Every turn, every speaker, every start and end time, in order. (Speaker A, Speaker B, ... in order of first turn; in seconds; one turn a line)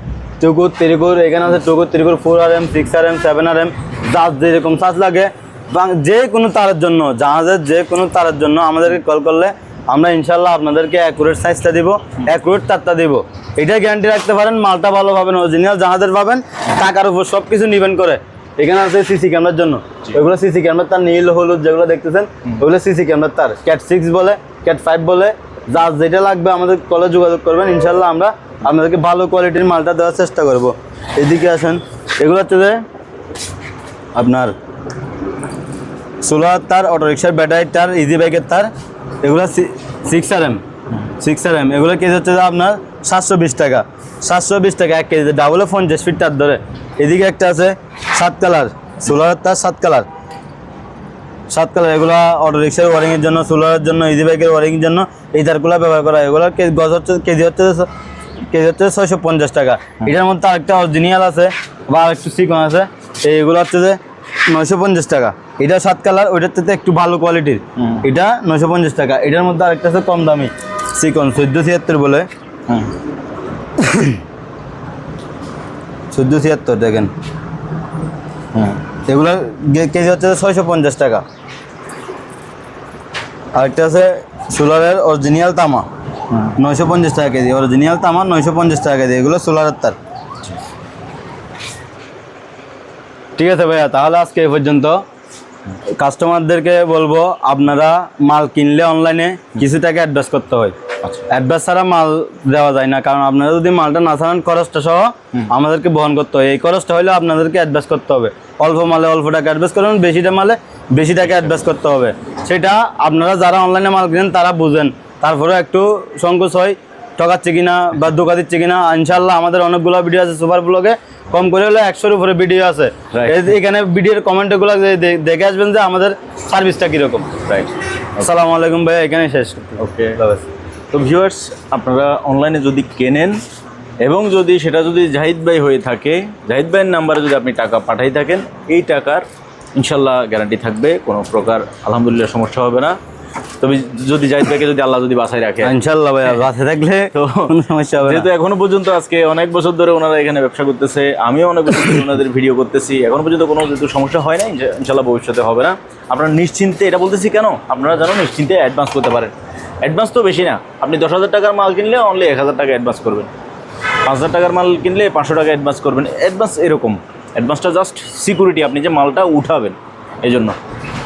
Speaker A: 0.4-32.8
Speaker A: 34.1-34.5
Speaker A: 36.2-38.7
Speaker A: 39.2-50.0
Speaker A: 51.5-57.9
Speaker A: 58.5-72.3
Speaker B: 67.8-68.0
Speaker B: 72.7-72.9
Speaker A: 73.8-74.2
Speaker A: 76.1-77.1
Speaker B: 78.5-78.8
Speaker A: 79.0-81.2
Speaker A: 83.5-85.9
Speaker A: 86.5-90.0
Speaker A: 93.4-95.0
Speaker A: 95.9-100.8
Speaker A: 101.3-127.4
Speaker B: 123.1-123.5
Speaker B: 127.4-128.3
Speaker A: 128.2-130.4
Speaker B: 129.8-130.2
Speaker B: 130.9-133.4
Speaker B: 134.0-143.0
Speaker B: 143.6-145.7
Speaker A: 145.6-148.3
Speaker B: 147.1-163.3
Speaker B: 164.0-170.6